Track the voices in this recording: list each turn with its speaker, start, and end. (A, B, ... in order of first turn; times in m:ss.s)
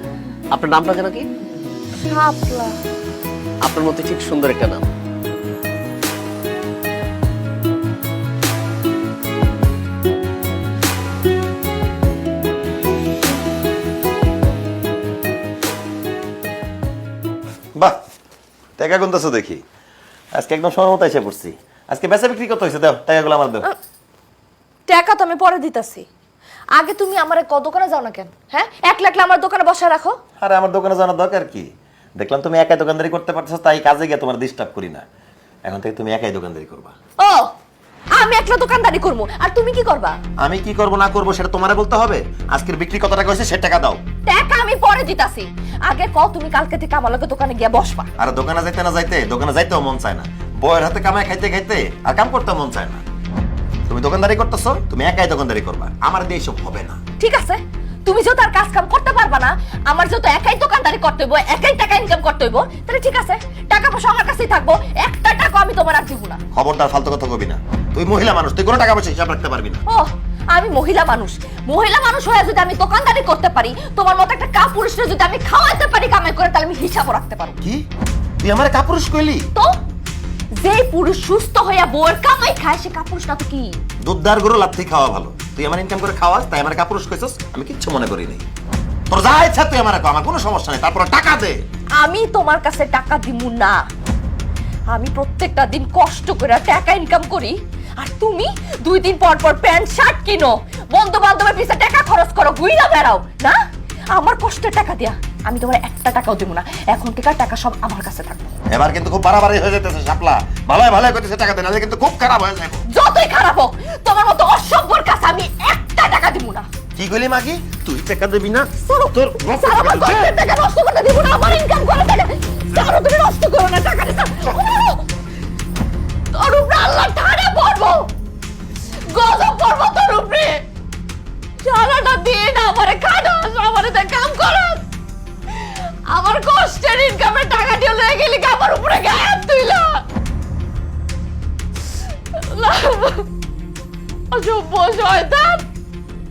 0:00.5-0:01.3 A
0:02.1-0:02.8 B
0:03.6-0:04.8 A
0:18.8-0:19.6 C
0:20.4-0:23.7 C
0:24.9-0:26.1 B
0:26.8-0:30.2 B
0:30.4-0:35.0 C
0:35.7-0:36.9 C
0:37.2-0:37.5 B
0:38.2-0:40.2 B
0:40.4-0:44.0 C
0:44.3-0:48.1 B
0:48.2-0:53.0 C
0:53.9-0:57.0 C
0:57.2-1:06.4 B
1:06.5-1:09.8 C
1:09.9-1:17.6 B
1:18.4-1:19.5 C
1:20.6-1:23.8 B
1:24.0-1:28.4 C
1:29.1-1:31.6 C
1:32.0-1:33.8 B
1:34.9-1:43.6 B
1:44.1-1:48.6 B
1:48.7-1:52.8 C
1:52.9-1:56.7 B
1:57.0-2:00.3 C
1:58.9-2:05.1 B
2:06.3-2:08.1 B
2:09.1-2:10.6 B
2:11.6-2:14.9 B
2:16.1-2:20.0 B
2:22.3-2:23.3 B
2:24.3-2:25.6 B